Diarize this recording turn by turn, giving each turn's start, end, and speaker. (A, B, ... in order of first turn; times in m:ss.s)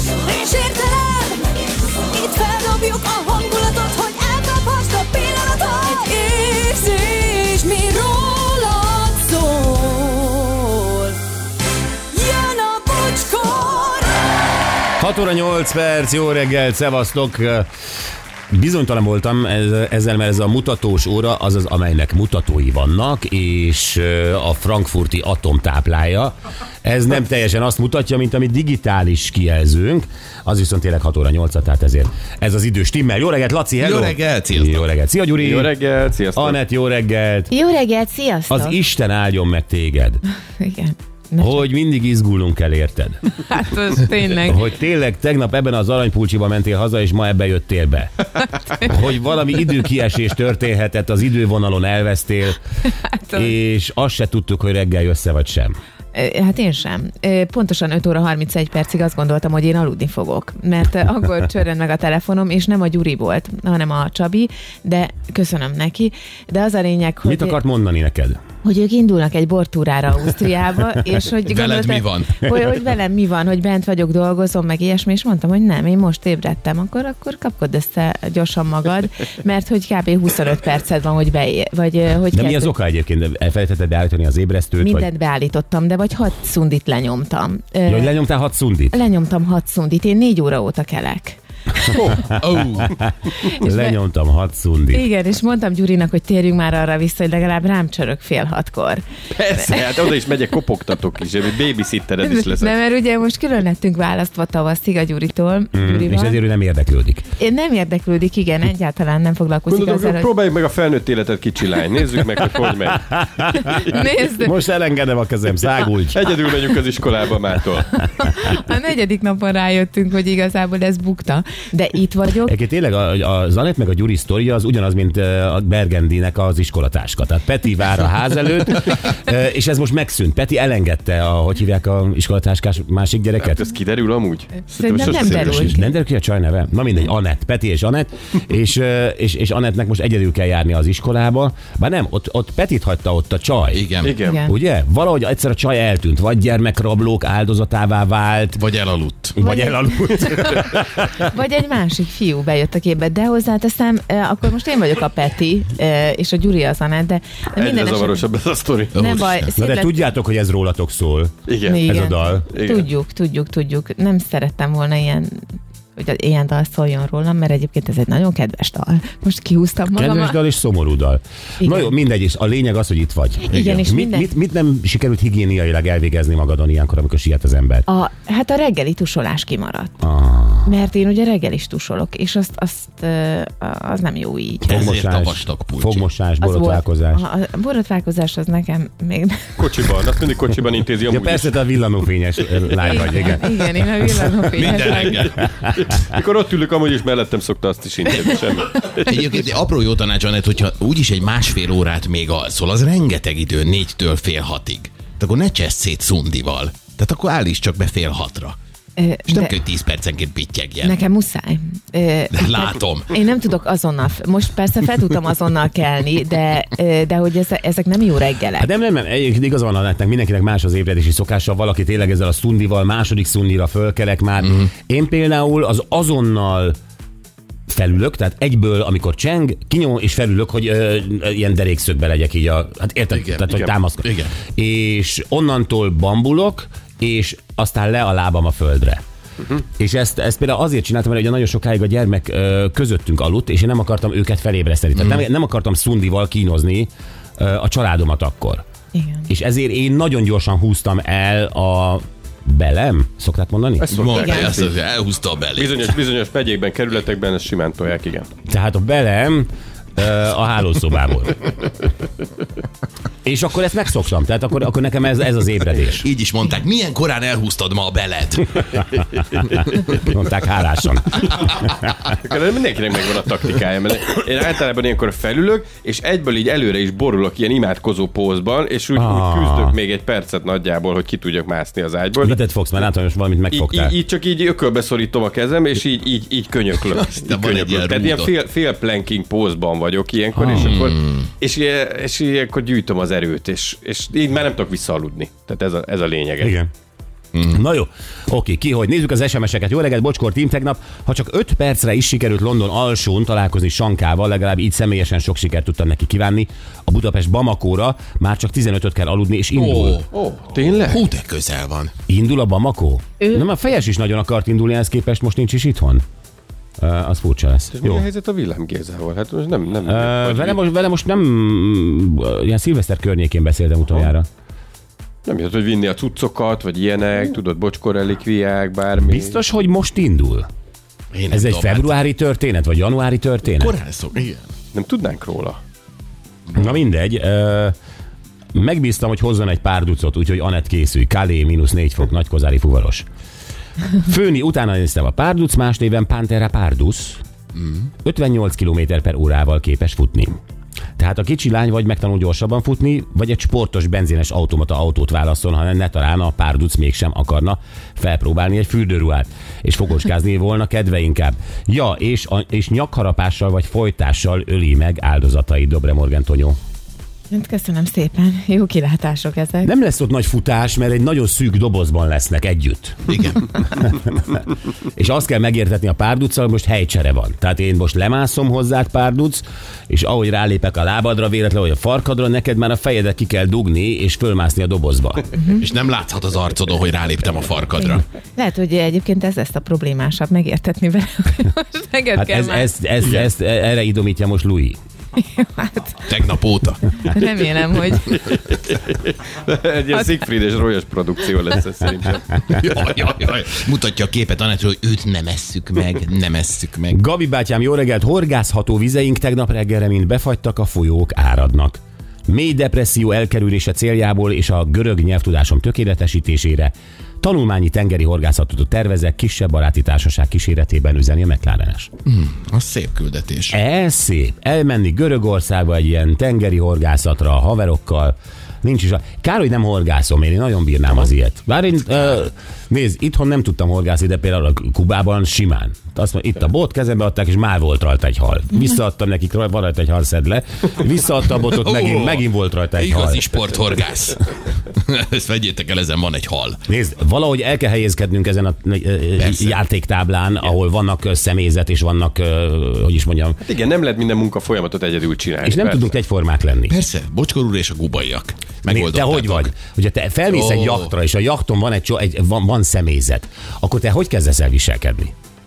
0:00.2-0:11.2 A
0:12.1-0:14.4 A
0:15.0-0:17.7 B
0:18.5-0:26.3 B
0:26.8-0:35.7 B
0:33.8-0:34.9 C
0:35.4-0:36.6 D
0:36.4-0:37.5 B
0:37.5-0:38.8 E
0:38.5-0:40.2 B
0:40.6-0:41.6 E
0:41.4-0:43.2 B
0:43.4-0:44.7 E
0:44.4-0:48.1 B
0:48.8-0:52.6 B
0:53.0-0:53.5 E
0:53.3-0:55.8 B
0:56.1-1:07.6 E
1:07.2-1:08.4 B
1:08.6-1:22.7 E
1:11.5-1:12.4 C
1:22.3-1:25.1 B
1:24.8-1:28.2 E
1:27.9-1:29.0 B
1:28.9-1:32.0 E
1:31.9-1:32.4 D
1:32.4-1:32.9 C
1:33.4-1:34.0 E
1:33.5-1:35.1 B
1:34.9-1:39.0 E
1:39.3-1:42.7 D
1:39.6-1:39.9 E
1:42.2-1:46.4 E
1:45.7-1:47.3 B
1:47.4-1:50.3 E
1:49.7-1:53.2 D
1:53.1-1:56.3 B
1:53.6-1:54.5 E
1:56.2-1:58.0 D
1:58.2-2:02.5 E
2:02.4-2:13.6 B
2:13.4-2:15.7 D
2:14.8-2:15.9 E
2:15.2-2:23.9 B
2:23.7-2:24.2 C
2:24.0-2:24.4 D
2:24.2-2:24.5 E
2:24.4-2:28.6 B
2:28.6-2:29.4 C
2:29.4-2:31.3 B
2:29.4-2:38.3 E
2:37.6-2:39.2 D
2:38.9-2:39.5 C
2:39.0-2:40.0 E
2:39.6-2:42.5 B
2:41.5-2:41.8 D
2:41.7-2:45.4 E
2:42.5-2:42.9 D
2:46.0-2:50.4 E
2:49.9-2:57.9 B
2:51.6-2:51.9 E
2:53.5-2:54.3 E
2:53.5-2:53.9 C
2:57.9-2:59.9 E
3:00.0-3:00.8 B
3:00.6-3:04.9 E
3:04.6-3:06.1 C
3:04.6-3:07.2 B
3:06.4-3:09.6 E
3:09.6-3:11.5 D
3:11.1-3:15.8 B
3:12.8-3:15.3 E
3:14.6-3:15.4 C
3:14.8-3:15.2 D
3:15.9-3:19.1 D
3:18.8-3:28.6 C
3:29.0-3:29.5 E
3:29.3-3:31.0 C
3:30.8-3:38.7 E
3:32.3-3:33.2 C
3:38.6-3:46.8 B
3:47.7-3:59.0 B
3:53.1-3:54.4 C
3:59.6-4:08.6 B
4:05.0-4:05.2 C
4:08.9-4:09.3 E
4:09.3-4:14.0 B
4:13.8-4:14.7 D
4:13.9-4:15.9 C
4:15.6-4:18.3 D
4:18.5-4:21.5 B
4:23.2-4:26.1 B
4:26.0-4:29.0 C
4:29.3-4:31.9 B
4:32.0-4:42.4 D
4:39.0-4:39.8 B
4:42.2-4:44.0 B
4:43.5-4:56.5 D
4:47.2-4:48.3 C
4:50.3-4:50.9 B
4:50.5-4:51.3 C
4:56.4-4:56.7 B
4:57.4-5:10.0 B
5:09.6-5:11.9 C
5:10.1-5:11.0 D
5:12.1-5:16.0 B
5:16.8-5:18.0 B
5:17.8-5:20.6 D
5:19.9-5:24.3 B
5:25.3-5:29.4 D
5:29.0-5:30.5 B
5:31.1-5:31.9 C
5:31.3-5:33.8 B
5:33.6-5:34.5 C
5:34.7-5:35.6 D
5:36.6-5:37.8 B
5:38.5-5:43.0 B
5:44.0-5:47.2 B
5:47.6-5:47.9 C
5:48.0-5:50.4 B
5:51.0-6:06.6 B
6:07.3-6:09.7 E
6:09.6-6:14.4 B
6:13.1-6:13.5 C
6:15.0-6:25.4 B
6:25.6-6:28.0 C
6:28.4-6:32.7 E
6:32.2-6:34.8 B
6:35.2-6:36.0 E
6:36.1-6:37.0 C
6:37.0-6:38.2 E
6:38.1-6:42.4 D
6:42.5-6:47.0 C
6:46.9-7:01.9 B
7:02.1-7:03.6 C
7:03.5-7:23.3 B
7:21.5-7:22.2 C
7:22.8-7:26.6 C
7:26.7-7:33.4 B
7:29.2-7:29.6 C
7:33.4-7:35.9 D
7:35.4-7:36.8 B
7:36.7-7:39.5 C
7:38.7-7:45.1 B
7:40.3-7:40.9 C